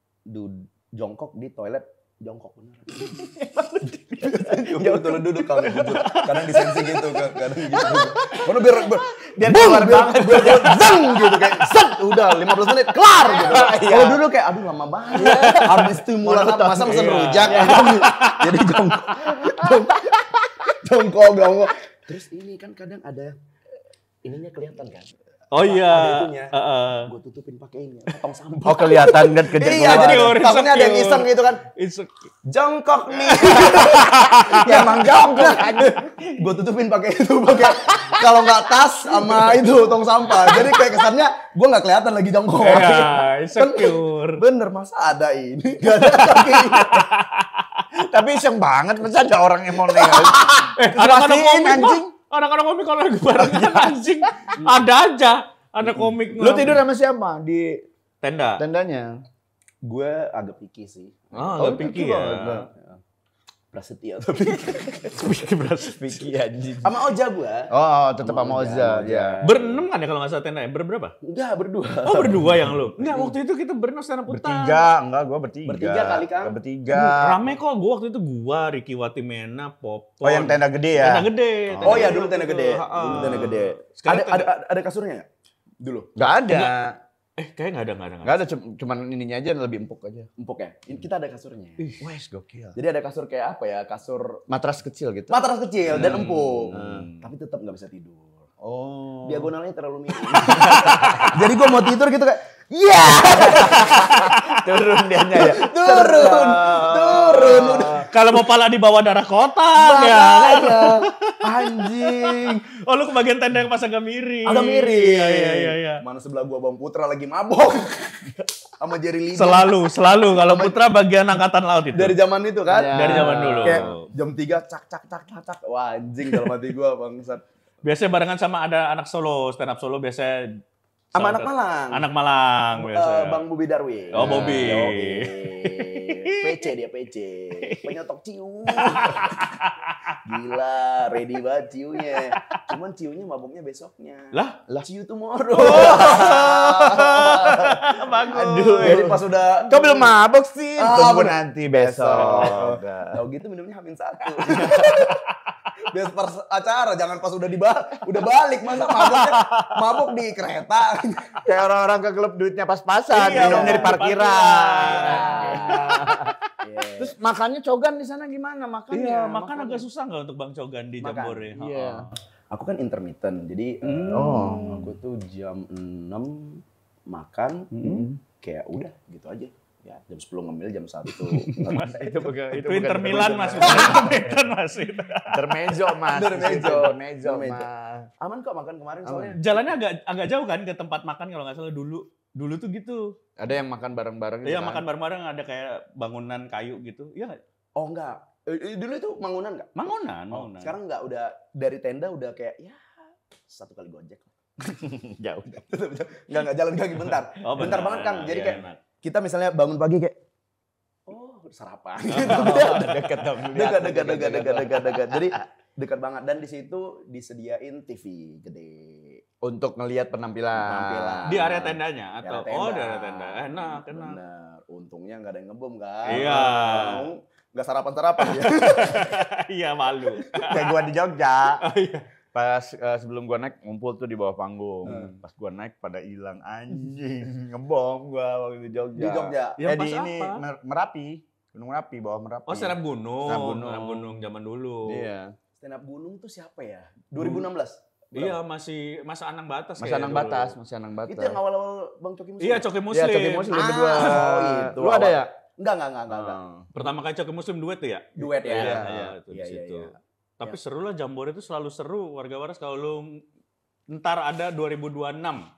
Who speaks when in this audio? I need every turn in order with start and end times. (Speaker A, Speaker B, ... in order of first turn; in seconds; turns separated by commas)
Speaker A: 0.3-3.3, Speaker B: 3.1-14.2, Speaker A: 3.8-23.4, Speaker C: 5.7-6.7, Speaker B: 15.1-18.1, Speaker C: 15.2-15.8, Speaker C: 16.8-18.5, Speaker B: 19.6-19.8, Speaker A: 24.2-26.5, Speaker C: 25.5-27.1, Speaker A: 27.1-31.6, Speaker B: 28.6-30.4, Speaker C: 29.6-32.1, Speaker A: 32.5-47.2, Speaker C: 33.1-34.9, Speaker B: 34.0-36.5, Speaker B: 37.7-38.2, Speaker B: 39.2-39.5, Speaker B: 40.4-40.8, Speaker C: 42.6-44.4, Speaker C: 46.1-47.8, Speaker B: 48.0-52.1, Speaker A: 49.9-50.6, Speaker C: 50.8-56.8, Speaker B: 53.4-54.6, Speaker B: 55.9-57.8, Speaker C: 58.2-58.6, Speaker B: 58.6-59.1, Speaker A: 59.8-63.0, Speaker C: 61.4-62.6, Speaker B: 61.6-62.7, Speaker A: 63.7-65.3, Speaker C: 65.1-66.3, Speaker B: 66.0-67.0, Speaker A: 66.8-69.9, Speaker B: 67.7-69.4, Speaker C: 69.4-71.2, Speaker A: 71.2-72.5, Speaker C: 72.0-74.8, Speaker B: 74.3-77.5, Speaker A: 75.7-76.6, Speaker C: 76.9-84.5, Speaker B: 80.2-82.2, Speaker A: 81.8-85.3, Speaker A: 85.8-86.1, Speaker B: 86.2-87.0, Speaker C: 86.5-86.8, Speaker C: 87.4-88.5, Speaker B: 88.2-90.3, Speaker A: 90.4-91.9, Speaker B: 92.0-92.8, Speaker A: 92.8-94.4, Speaker B: 94.5-95.4, Speaker A: 95.3-98.5, Speaker B: 95.9-97.1, Speaker C: 95.9-97.0, Speaker B: 98.6-99.5, Speaker A: 99.2-104.4, Speaker B: 100.3-101.3, Speaker C: 100.4-101.3, Speaker B: 103.1-108.1, Speaker C: 104.5-104.8, Speaker A: 105.3-108.1, Speaker C: 107.4-116.0, Speaker A: 109.7-112.7, Speaker A: 114.5-120.8, Speaker C: 119.4-122.2, Speaker A: 121.9-127.4, Speaker B: 122.7-123.9, Speaker C: 122.9-124.0, Speaker C: 127.8-130.6, Speaker C: 131.2-133.4, Speaker A: 131.2-132.1, Speaker A: 132.8-139.6, Speaker C: 134.1-136.6, Speaker B: 134.2-134.8, Speaker C: 137.6-137.9, Speaker C: 138.7-140.2, Speaker A: 140.2-150.2, Speaker C: 142.2-142.7, Speaker C: 144.3-144.6, Speaker C: 145.5-149.1, Speaker B: 145.6-153.2, Speaker A: 150.8-155.2, Speaker C: 152.2-152.6, Speaker C: 154.4-155.5, Speaker A: 155.8-161.4, Speaker C: 158.9-159.8, Speaker B: 161.4-166.3, Speaker C: 163.1-165.9, Speaker A: 163.3-164.0, Speaker A: 164.9-167.2, Speaker B: 167.0-169.8, Speaker C: 168.9-172.1, Speaker A: 171.0-171.5, Speaker B: 171.6-172.1, Speaker A: 172.5-182.4, Speaker C: 173.8-174.8, Speaker B: 174.1-174.9, Speaker C: 177.8-178.1, Speaker B: 177.8-178.2, Speaker C: 181.4-185.7, Speaker B: 181.9-184.4, Speaker A: 183.1-184.1, Speaker B: 185.3-188.1, Speaker A: 186.1-187.7, Speaker A: 188.2-189.4, Speaker B: 189.1-189.4, Speaker C: 189.3-193.2, Speaker B: 193.4-194.9, Speaker C: 194.4-197.4, Speaker A: 197.8-202.9, Speaker C: 199.8-200.7, Speaker A: 203.5-204.3, Speaker B: 204.7-205.6, Speaker A: 205.6-210.2, Speaker C: 207.4-208.8, Speaker A: 211.1-219.2, Speaker B: 212.2-215.4, Speaker B: 219.4-221.5, Speaker A: 220.6-229.2, Speaker C: 221.3-224.2, Speaker C: 226.1-227.1, Speaker C: 228.2-230.7, Speaker B: 230.4-231.6, Speaker C: 231.6-232.1, Speaker B: 232.3-244.2, Speaker A: 234.8-235.2, Speaker A: 238.9-239.6, Speaker C: 239.6-240.4, Speaker C: 242.5-245.1, Speaker B: 244.9-245.4, Speaker A: 245.6-248.4, Speaker C: 248.1-250.5, Speaker B: 249.8-251.4, Speaker A: 251.1-252.8, Speaker C: 252.4-254.2, Speaker B: 252.9-255.3, Speaker A: 253.5-256.4, Speaker B: 256.1-256.7, Speaker C: 256.7-263.2, Speaker A: 258.2-260.6, Speaker B: 258.5-259.1, Speaker C: 263.9-265.4